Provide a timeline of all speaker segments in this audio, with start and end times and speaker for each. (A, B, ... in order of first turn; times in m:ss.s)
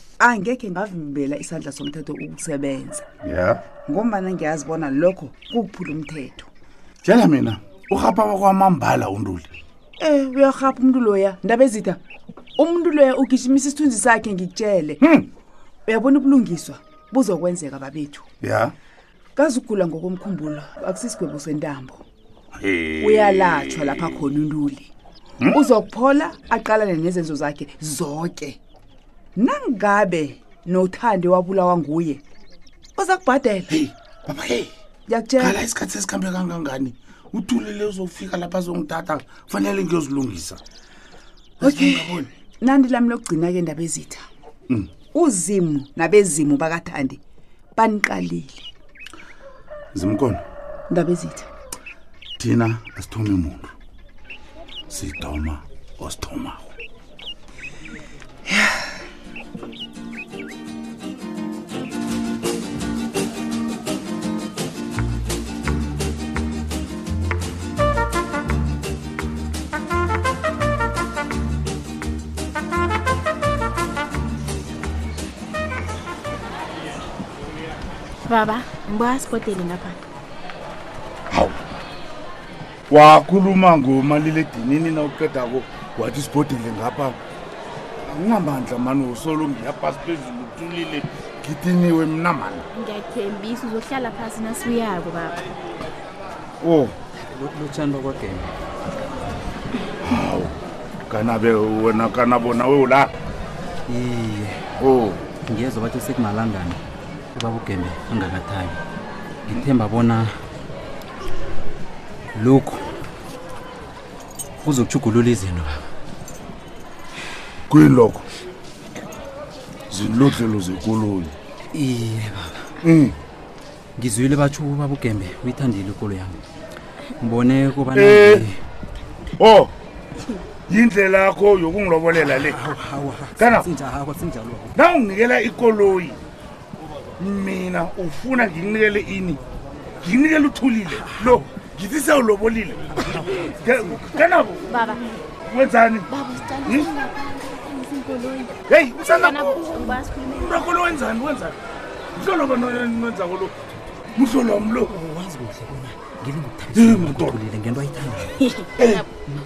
0:00.2-0:03.1 A
0:03.2-0:03.6 B
0:03.9-0:06.5 A
0:07.0-0:09.5 B
0:10.0-0:12.0 A
0:12.6-0:15.0 A
0:15.0-0:15.3 B
0:15.9-0:18.2 A
0:18.4-0:18.7 B
0:19.4-0:22.0 A
0:22.6-0:24.2 B
0:23.0-0:24.9 A
0:25.5-0:28.6 A
0:29.4-0:32.2 A
0:33.0-0:33.8 A
0:33.7-0:34.7 B
0:35.1-0:35.6 A
0:35.4-0:40.6 B
0:41.6-0:42.3 B
0:41.6-0:44.2 A
0:45.1-0:47.2 A
0:47.8-0:48.7 A
0:49.9-0:50.4 B
0:50.9-0:51.5 A
0:52.4-0:53.7 B
0:54.9-0:56.7 B
1:18.2-1:20.0 C
1:21.3-1:21.6 B
1:22.9-1:27.2 B
1:28.1-1:32.6 B
1:32.7-1:35.4 C
1:36.6-1:37.0 B
1:37.2-1:38.5 D
1:40.0-1:40.6 B
1:41.1-1:43.1 B
1:43.9-1:44.6 D
1:44.8-1:45.2 B
1:45.5-1:46.8 D
1:47.3-1:48.8 D
1:49.5-1:50.3 D
1:52.4-1:53.0 D
1:54.6-1:55.8 D
1:57.7-1:58.3 B
1:59.9-2:01.3 B
2:01.7-2:02.7 D
2:02.8-2:03.2 B
2:04.0-2:06.4 D
2:07.2-2:08.6 D
2:07.9-2:08.4 B
2:09.4-2:09.7 B
2:10.7-2:12.7 B
2:12.3-2:14.7 D
2:13.4-2:13.7 B
2:14.7-2:16.2 B
2:17.2-2:19.4 B
2:20.0-2:24.9 B
2:21.0-2:21.4 D
2:23.1-2:23.5 D
2:24.7-2:25.1 C
2:25.5-2:26.1 B
2:26.1-2:30.5 C
2:26.6-2:26.9 B
2:28.7-2:31.6 B
2:32.2-2:33.6 B
2:34.2-2:35.0 B
2:34.9-2:38.3 D
2:36.7-2:37.4 B
2:38.4-2:39.0 C
2:38.8-2:39.1 B